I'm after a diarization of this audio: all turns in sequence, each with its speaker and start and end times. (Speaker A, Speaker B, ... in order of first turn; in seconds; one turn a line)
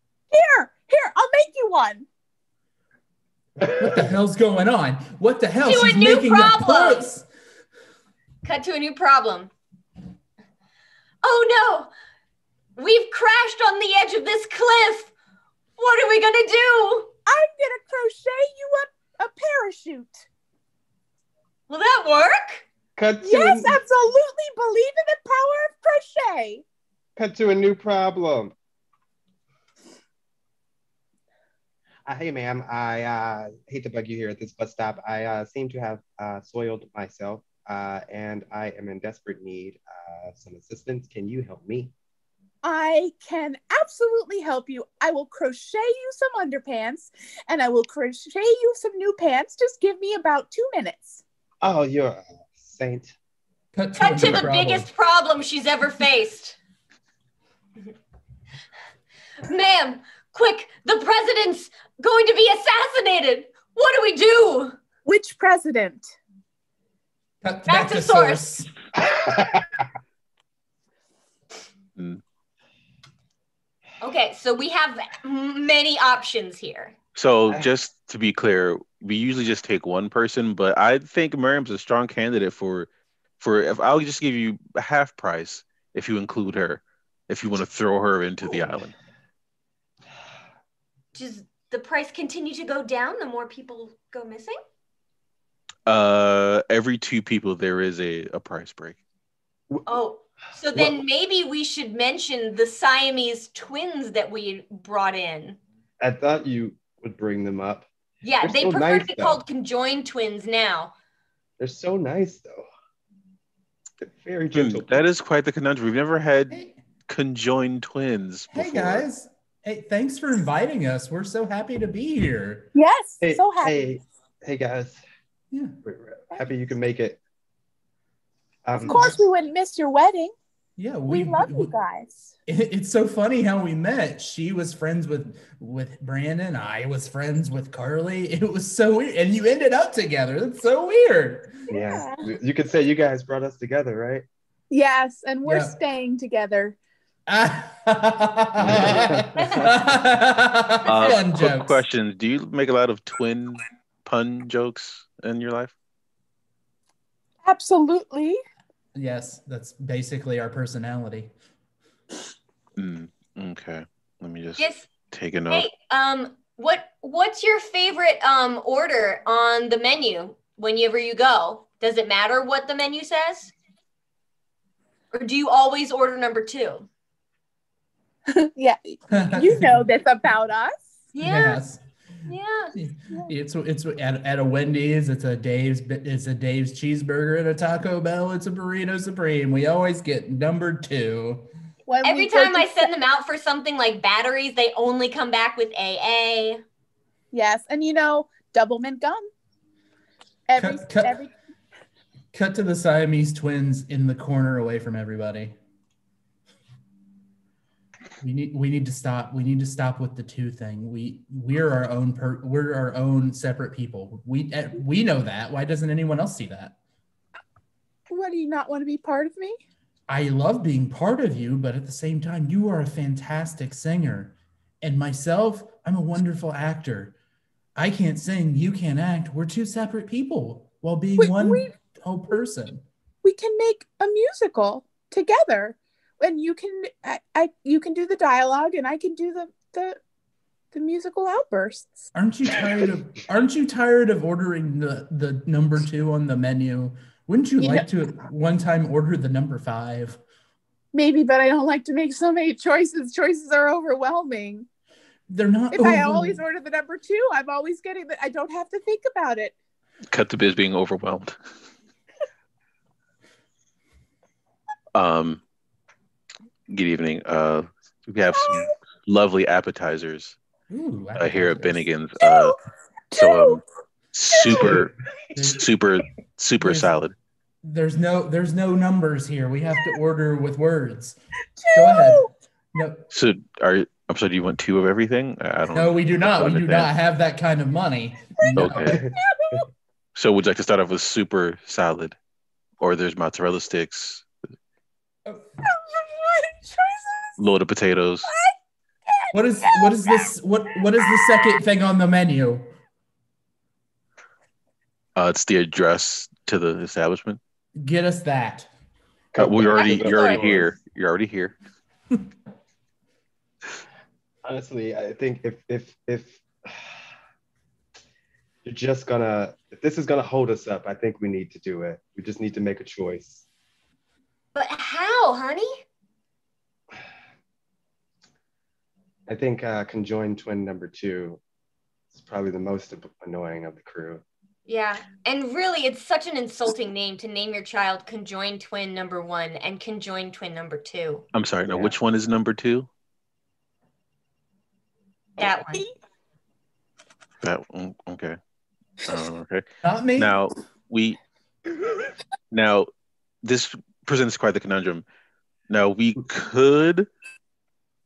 Speaker A: 0.3-2.1
Speaker B: 3.6-4.1
Speaker C: 3.8-7.2
Speaker D: 5.7-7.1
Speaker D: 8.4-9.5
Speaker D: 11.2-11.9
Speaker D: 12.8-15.1
Speaker D: 15.8-17.1
Speaker A: 17.3-20.3
Speaker D: 21.7-22.7
Speaker B: 23.0-23.8
Speaker A: 23.2-26.6
Speaker B: 27.2-28.5
Speaker B: 32.1-41.9
Speaker A: 42.6-51.2
Speaker B: 51.6-53.1
Speaker C: 53.7-54.9
Speaker D: 54.0-56.6
Speaker D: 59.4-64.8
Speaker A: 65.0-66.2
Speaker C: 67.4-68.7
Speaker D: 67.7-68.5
Speaker B: 69.0-69.8
Speaker D: 74.0-77.0
Speaker E: 77.2-88.9
Speaker D: 91.1-94.5
Speaker E: 95.9-99.0
Speaker D: 99.9-105.6
Speaker B: 106.0-107.9
Speaker D: 108.2-110.9
Speaker B: 108.4-109.4
Speaker B: 111.6-112.7
Speaker B: 114.0-115.0
Speaker E: 114.5-119.1
Speaker C: 116.5-116.8
Speaker C: 118.5-122.7
Speaker A: 122.8-123.8
Speaker B: 123.2-125.0
Speaker B: 125.8-127.2
Speaker B: 128.7-129.1
Speaker C: 128.8-129.1
Speaker A: 128.8-130.3
Speaker C: 130.8-131.7
Speaker A: 131.1-132.3
Speaker C: 132.5-141.6
Speaker B: 141.7-144.2
Speaker A: 141.7-142.2
Speaker A: 144.7-146.8
Speaker C: 145.4-145.8
Speaker C: 147.3-151.8
Speaker B: 148.6-149.3
Speaker D: 149.3-149.7
Speaker D: 150.9-151.1
Speaker E: 150.9-155.7
Speaker A: 157.4-158.4
Speaker C: 158.9-161.3
Speaker E: 162.8-165.7
Speaker D: 164.6-164.9
Speaker D: 165.5-173.5
Speaker D: 175.1-176.9
Speaker A: 178.3-181.0
Speaker C: 179.1-179.8
Speaker D: 181.1-181.6
Speaker C: 181.2-181.8
Speaker D: 182.3-182.8
Speaker C: 182.8-191.5
Speaker A: 191.9-192.9
Speaker D: 192.0-196.6
Speaker A: 197.3-199.3
Speaker A: 200.5-201.3
Speaker C: 200.6-201.2
Speaker C: 202.3-205.6
Speaker C: 208.2-216.8
Speaker A: 218.1-219.6
Speaker C: 220.1-227.2
Speaker C: 227.8-232.8
Speaker A: 231.2-231.7
Speaker A: 233.2-240.0
Speaker A: 240.7-242.1
Speaker C: 242.1-250.2
Speaker A: 247.6-247.9
Speaker A: 250.9-254.7
Speaker C: 255.3-256.4
Speaker A: 255.7-259.6
Speaker E: 260.1-261.4
Speaker E: 264.9-265.4
Speaker E: 266.7-270.4
Speaker A: 268.4-268.7
Speaker C: 270.7-271.9
Speaker E: 271.2-272.6
Speaker A: 272.2-272.6
Speaker A: 273.1-273.6
Speaker E: 273.1-273.6
Speaker E: 274.1-277.1
Speaker A: 274.3-274.7
Speaker C: 275.4-275.7
Speaker C: 276.6-276.9
Speaker C: 277.6-281.2
Speaker A: 281.6-282.3
Speaker C: 281.7-283.0
Speaker E: 283.1-286.9
Speaker C: 285.7-289.0
Speaker A: 288.4-289.7
Speaker E: 288.6-289.0
Speaker B: 288.8-289.1
Speaker E: 290.1-292.2
Speaker E: 292.8-294.3
Speaker A: 295.6-297.4
Speaker E: 297.4-298.3
Speaker A: 298.2-298.5
Speaker A: 299.1-300.3
Speaker C: 299.3-302.7
Speaker E: 305.2-307.4
Speaker C: 307.8-308.7
Speaker B: 309.3-310.8
Speaker E: 309.4-311.6
Speaker D: 309.7-310.5
Speaker B: 314.4-316.9
Speaker B: 318.6-323.4
Speaker D: 324.6-325.8
Speaker B: 329.3-331.4
Speaker B: 332.1-334.2
Speaker D: 334.7-341.3
Speaker E: 341.3-342.9
Speaker B: 341.7-342.0
Speaker D: 345.4-345.9
Speaker E: 347.4-348.4
Speaker E: 349.1-351.2
Speaker C: 349.8-350.3
Speaker E: 352.5-352.9
Speaker E: 353.4-355.0
Speaker E: 355.7-357.1